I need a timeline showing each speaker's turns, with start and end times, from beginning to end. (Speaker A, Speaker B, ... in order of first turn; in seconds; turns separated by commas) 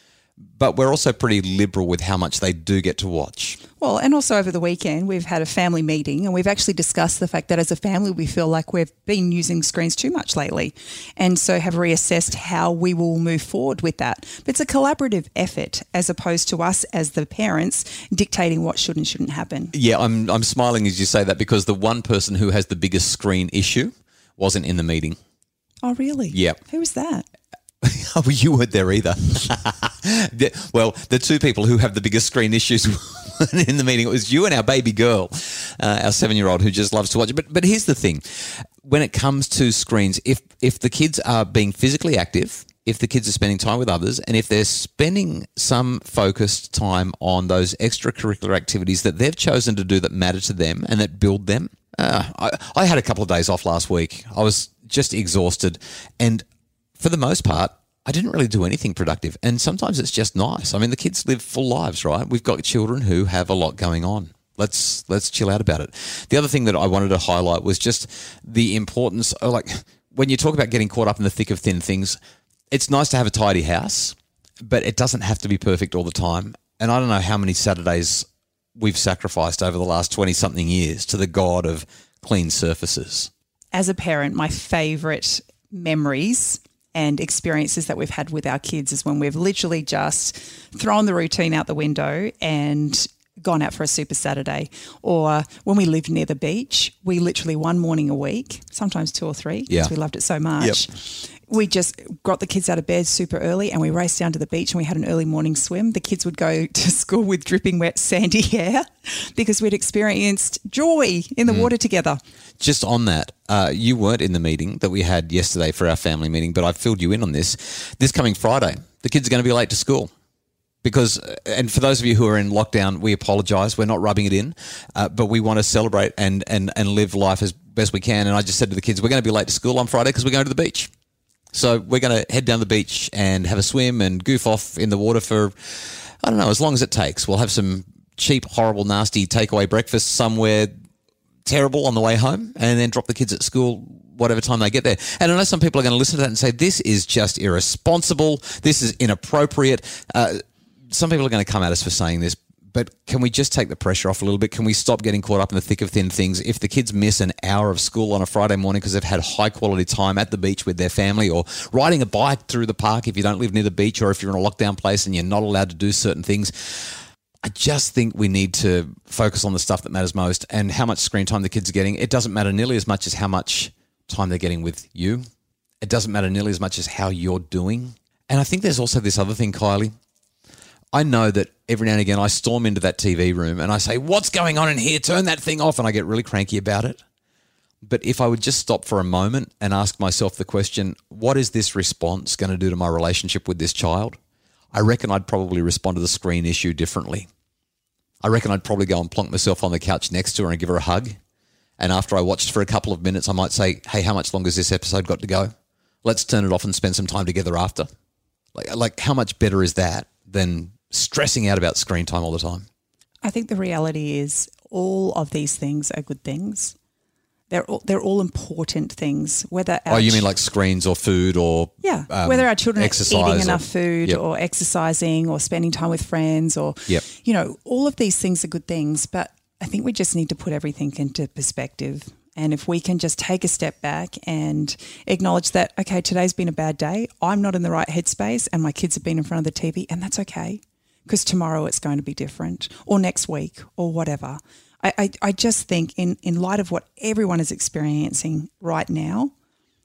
Speaker A: 0.6-3.6, Speaker B: 3.8-19.7, Speaker A: 19.7-25.2, Speaker B: 25.8-27.2, Speaker A: 26.3-26.6, Speaker A: 27.8-56.4, Speaker A: 57.0-72.2, Speaker A: 72.7-78.3, Speaker A: 78.8-83.3, Speaker B: 83.7-112.2, Speaker A: 112.6-120.1, Speaker A: 120.8-130.9, Speaker A: 131.5-140.7, Speaker A: 141.5-175.2, Speaker A: 175.8-179.9, Speaker A: 180.9-187.0, Speaker A: 187.8-194.2, Speaker A: 194.7-197.3, Speaker A: 198.2-201.2, Speaker A: 201.8-205.5, Speaker A: 206.0-207.9, Speaker A: 208.6-212.7, Speaker B: 213.2-216.8, Speaker B: 217.5-220.3, Speaker A: 219.9-224.2, Speaker B: 221.8-249.3